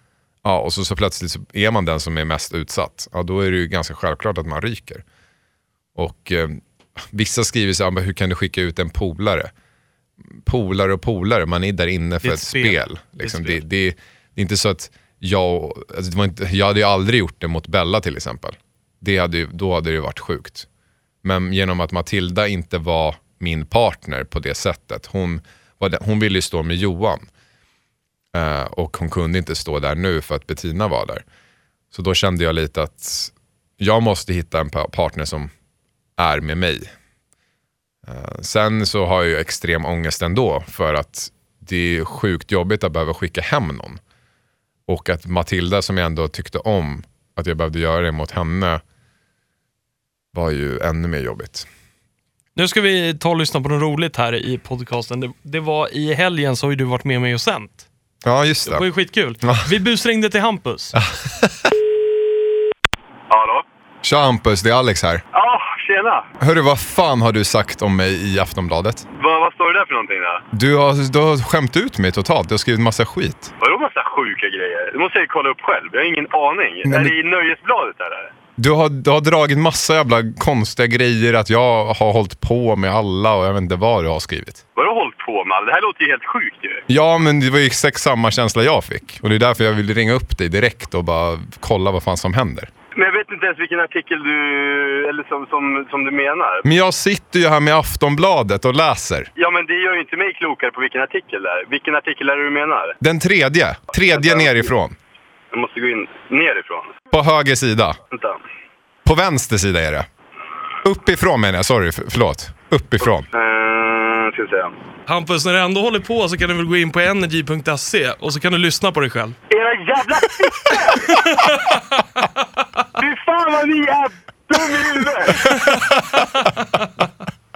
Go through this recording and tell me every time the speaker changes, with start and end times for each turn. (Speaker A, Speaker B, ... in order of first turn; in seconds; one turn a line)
Speaker A: 0.4-5.0
Speaker A: 5.9-9.5
Speaker A: 10.3-20.7
Speaker B: 12.2-13.6
Speaker A: 21.2-27.3
Speaker A: 28.3-31.2
Speaker A: 31.9-35.5
Speaker A: 36.2-36.9
Speaker A: 38.0-44.0
Speaker A: 44.9-48.8
Speaker A: 50.3-51.7
Speaker B: 52.5-57.9
Speaker A: 58.2-58.8
Speaker B: 58.6-60.9
Speaker A: 60.9-61.7
Speaker C: 63.3-63.6
Speaker A: 64.0-65.2
Speaker C: 65.3-66.3
Speaker A: 66.4-69.0
Speaker C: 69.2-70.4
Speaker A: 70.5-73.5
Speaker C: 73.6-78.3
Speaker A: 76.8-77.1
Speaker A: 78.6-84.6
Speaker C: 84.8-86.8
Speaker A: 86.9-92.7
Speaker C: 92.9-96.6
Speaker A: 96.6-99.3
Speaker C: 99.4-103.0
Speaker A: 103.0-105.0
Speaker C: 104.2-104.6
Speaker C: 105.5-106.9
Speaker A: 107.1-108.0
Speaker C: 108.1-108.4
Speaker A: 109.0-110.1
Speaker A: 110.8-113.3
Speaker C: 113.3-114.7
Speaker B: 115.1-119.4
Speaker C: 119.5-121.2
Speaker B: 121.1-121.8
Speaker C: 123.0-125.4